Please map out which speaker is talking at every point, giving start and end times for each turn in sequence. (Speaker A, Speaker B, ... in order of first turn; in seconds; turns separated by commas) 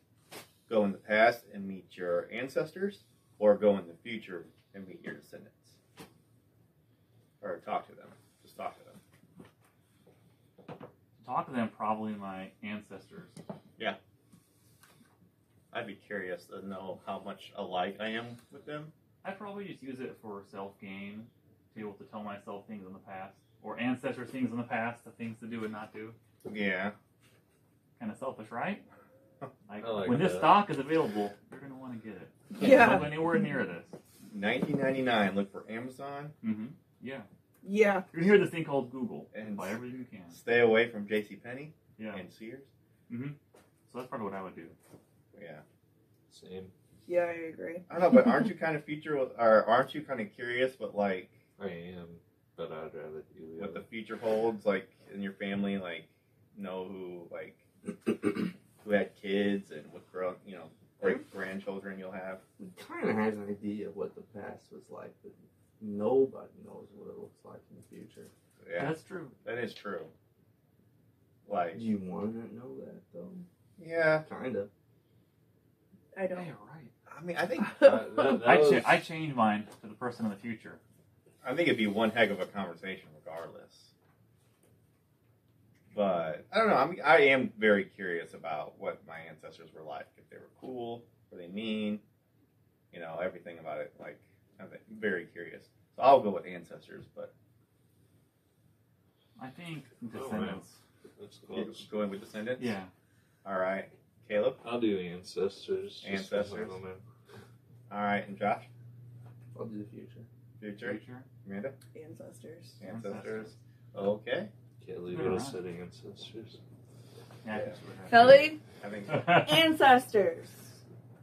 Speaker A: 0.7-5.8, Speaker A: 7.4-9.0, Speaker B: 11.2-13.4, Speaker A: 15.7-18.9, Speaker B: 19.2-26.2, Speaker A: 26.5-26.9, Speaker B: 28.0-28.8, Speaker B: 29.7-33.9, Speaker C: 29.8-30.7, Speaker D: 32.6-33.0, Speaker A: 34.3-36.3, Speaker B: 36.4-37.3, Speaker D: 37.6-38.1, Speaker B: 38.1-40.4, Speaker A: 39.3-39.8, Speaker A: 40.3-42.7, Speaker B: 42.0-42.2, Speaker B: 43.1-43.4, Speaker B: 43.9-44.8, Speaker A: 45.3-45.6, Speaker C: 46.3-46.7, Speaker D: 47.1-47.9, Speaker A: 47.9-51.3, Speaker C: 51.6-53.9, Speaker A: 53.6-62.4, Speaker E: 62.6-68.3, Speaker A: 68.6-70.1, Speaker B: 68.8-69.4, Speaker A: 71.5-71.9, Speaker E: 71.7-73.5, Speaker A: 73.8-74.2, Speaker E: 74.2-74.7, Speaker D: 76.2-76.5, Speaker C: 76.3-76.9, Speaker A: 77.1-78.0, Speaker C: 77.7-79.0, Speaker B: 78.4-80.8, Speaker A: 81.4-83.9, Speaker A: 85.9-92.0, Speaker A: 92.9-97.3, Speaker B: 99.4-100.8, Speaker C: 100.1-100.6, Speaker C: 101.2-101.9, Speaker A: 101.5-102.8, Speaker B: 102.6-102.9, Speaker A: 103.4-104.6, Speaker C: 104.6-107.0, Speaker A: 106.0-106.8, Speaker A: 107.9-108.7, Speaker E: 109.5-110.3, Speaker A: 110.6-111.8, Speaker B: 110.8-111.3, Speaker D: 111.9-112.8, Speaker A: 112.8-114.5, Speaker B: 112.8-113.6, Speaker C: 114.8-116.6, Speaker B: 115.1-115.6, Speaker B: 117.4-118.5, Speaker A: 117.5-117.8, Speaker D: 118.1-118.6, Speaker A: 118.8-119.5, Speaker B: 119.1-119.5, Speaker D: 119.2-120.8